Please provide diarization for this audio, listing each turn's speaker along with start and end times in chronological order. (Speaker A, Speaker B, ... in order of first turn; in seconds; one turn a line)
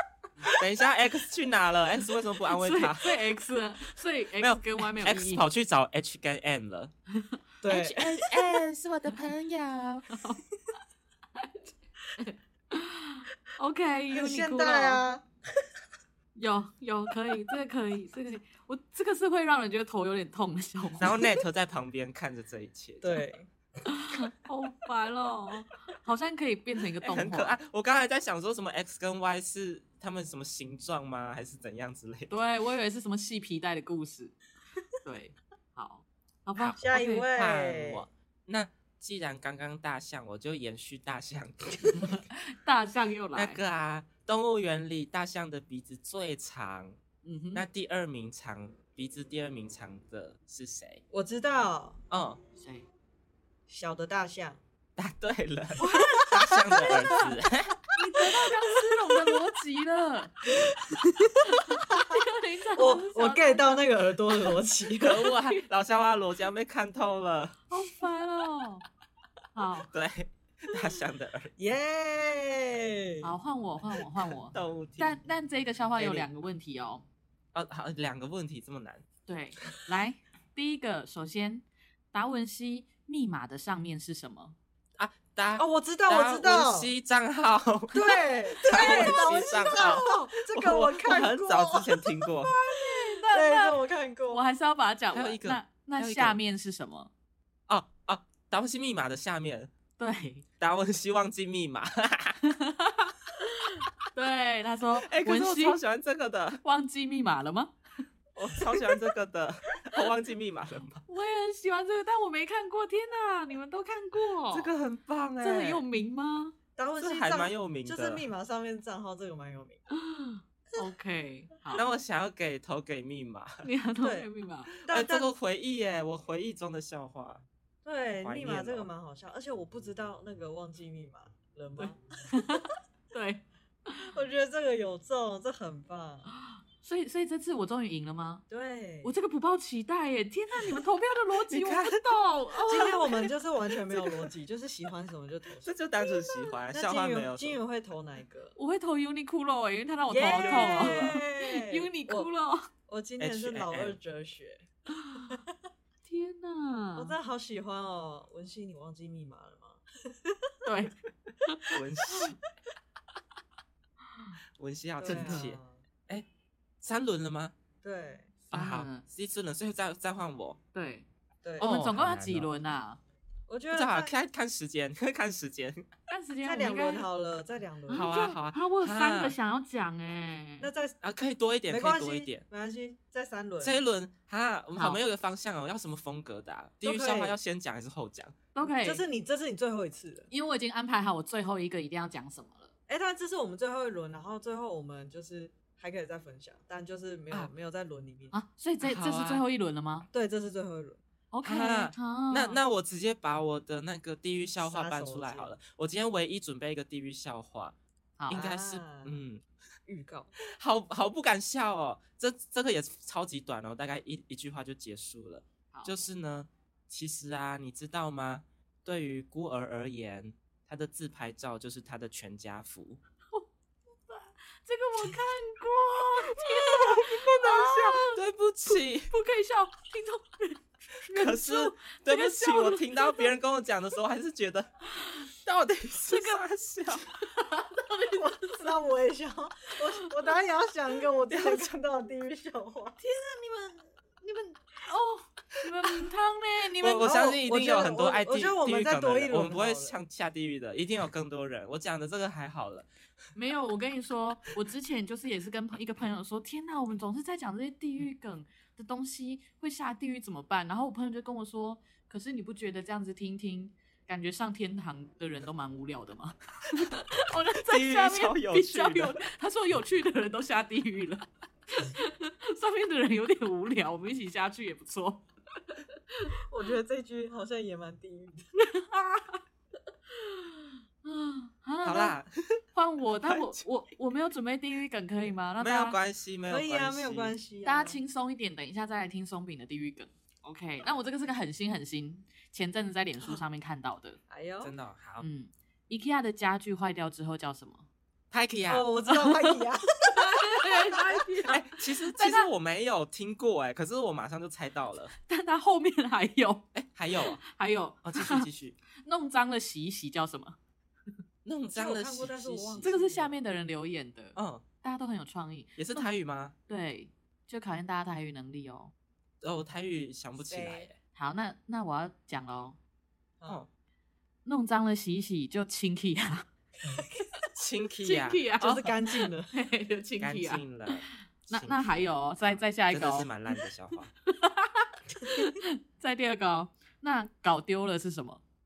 Speaker A: 0.5-3.2
Speaker B: 2.5-5.4
Speaker A: 4.4-6.9
Speaker C: 7.6-8.4
Speaker A: 7.6-10.1
Speaker B: 10.1-10.4
Speaker B: 12.2-15.0
Speaker C: 14.1-15.2
Speaker B: 16.3-21.2
Speaker A: 21.0-23.2
Speaker C: 23.0-23.5
Speaker B: 23.8-27.6
Speaker A: 27.0-32.3
Speaker B: 32.3-34.3
Speaker B: 35.0-37.3
Speaker A: 36.6-42.2
Speaker C: 36.8-38.1
Speaker B: 41.9-43.6
Speaker A: 43.3-47.0
Speaker B: 47.2-47.6
Speaker A: 47.5-51.0
Speaker C: 51.1-52.0
Speaker A: 52.1-52.4
Speaker B: 52.5-52.9
Speaker C: 53.7-54.6
Speaker A: 55.0-57.8
Speaker B: 55.8-57.2
Speaker C: 55.9-57.3
Speaker B: 57.9-60.4
Speaker C: 58.2-59.2
Speaker C: 60.5-62.2
Speaker B: 61.4-63.8
Speaker C: 62.8-65.3
Speaker A: 65.0-67.6
Speaker B: 65.2-65.6
Speaker B: 67.7-68.8
Speaker B: 69.5-69.9
Speaker A: 69.9-71.5
Speaker C: 71.6-73.3
Speaker B: 73.2-77.0
Speaker A: 74.5-75.2
Speaker A: 76.0-76.3
Speaker A: 77.5-79.0
Speaker B: 79.3-84.5
Speaker A: 85.0-92.5
Speaker C: 85.6-86.9
Speaker C: 87.9-94.4
Speaker B: 88.6-90.1
Speaker B: 92.7-97.1
Speaker A: 95.1-96.4
Speaker A: 97.7-99.7
Speaker B: 100.0-100.4
Speaker A: 100.6-102.4
Speaker B: 102.5-105.8
Speaker A: 105.0-106.6
Speaker B: 106.6-107.7
Speaker A: 108.3-111.0
Speaker B: 111.1-114.7
Speaker A: 114.5-115.8
Speaker B: 115.4-116.5
Speaker C: 116.8-119.8
Speaker A: 117.0-118.2
Speaker B: 119.9-121.8
Speaker A: 121.7-123.7
Speaker B: 123.6-124.7
Speaker C: 124.0-124.3
Speaker C: 124.8-125.3
Speaker A: 124.9-127.4
Speaker C: 127.8-132.0
Speaker A: 128.2-128.9
Speaker B: 131.8-134.1
Speaker C: 134.1-136.3
Speaker B: 136.3-138.4
Speaker C: 138.5-139.1
Speaker B: 139.0-143.3
Speaker A: 141.5-142.0
Speaker C: 142.7-145.8
Speaker A: 145.6-147.6
Speaker C: 146.7-148.5
Speaker B: 148.6-152.7
Speaker C: 150.1-152.3
Speaker A: 150.3-151.2
Speaker C: 152.9-155.6
Speaker A: 153.2-154.0
Speaker B: 154.9-155.3
Speaker B: 156.0-157.1
Speaker C: 156.9-160.5
Speaker B: 160.6-162.3
Speaker A: 161.7-162.4
Speaker A: 164.6-166.2
Speaker C: 165.0-165.8
Speaker B: 165.0-165.5
Speaker A: 166.8-167.5
Speaker C: 167.8-168.3
Speaker B: 168.5-169.0
Speaker A: 168.5-170.6
Speaker B: 170.7-171.1
Speaker C: 171.4-171.7
Speaker A: 171.6-172.5
Speaker B: 171.6-173.0
Speaker C: 173.5-174.1
Speaker A: 173.7-175.9
Speaker B: 176.1-177.1
Speaker C: 176.4-178.1
Speaker B: 177.9-180.7
Speaker A: 177.9-179.3
Speaker C: 180.6-180.9
Speaker A: 181.0-182.4
Speaker C: 181.7-183.8
Speaker A: 183.6-188.3
Speaker B: 184.7-185.0
Speaker C: 186.8-187.3
Speaker B: 188.5-189.0
Speaker C: 188.6-190.3
Speaker B: 190.3-192.7
Speaker C: 192.9-198.3
Speaker B: 198.3-200.1
Speaker A: 198.8-199.4
Speaker C: 200.1-201.0
Speaker B: 201.3-202.6
Speaker A: 201.4-207.7
Speaker C: 204.6-205.5
Speaker A: 208.3-209.4
Speaker C: 208.3-209.2
Speaker C: 209.9-210.3
Speaker A: 210.5-223.0
Speaker B: 224.1-233.3
Speaker A: 226.4-229.1
Speaker A: 231.1-234.8
Speaker B: 235.0-235.2
Speaker A: 235.4-237.1
Speaker B: 236.1-238.6
Speaker C: 238.1-243.0
Speaker A: 241.3-241.7
Speaker B: 243.0-247.2
Speaker A: 246.8-252.9
Speaker C: 247.0-250.0
Speaker B: 253.3-275.8
Speaker A: 267.6-269.2
Speaker C: 276.5-278.4
Speaker B: 278.6-279.4
Speaker B: 280.1-282.1
Speaker A: 281.8-282.6
Speaker B: 282.7-286.0
Speaker A: 283.2-283.6
Speaker A: 285.6-287.4
Speaker C: 286.5-288.0
Speaker B: 287.6-294.2
Speaker C: 294.3-294.7
Speaker A: 294.6-295.2
Speaker B: 295.2-297.9
Speaker A: 298.3-298.9
Speaker C: 298.7-301.2
Speaker B: 299.1-299.6
Speaker B: 300.1-302.5
Speaker A: 301.5-305.1
Speaker B: 305.2-308.5
Speaker A: 306.7-307.4
Speaker A: 308.0-308.8
Speaker B: 309.0-310.6
Speaker A: 311.4-312.9
Speaker C: 311.7-313.4
Speaker B: 312.8-316.1
Speaker A: 314.4-314.6
Speaker A: 315.8-316.5
Speaker B: 316.7-318.9
Speaker A: 319.4-320.9
Speaker C: 320.4-320.9
Speaker B: 321.1-322.8
Speaker B: 324.4-326.5
Speaker C: 326.8-327.2
Speaker A: 327.6-328.9
Speaker B: 328.0-333.3
Speaker C: 328.6-329.5
Speaker A: 330.2-334.1
Speaker B: 334.3-338.4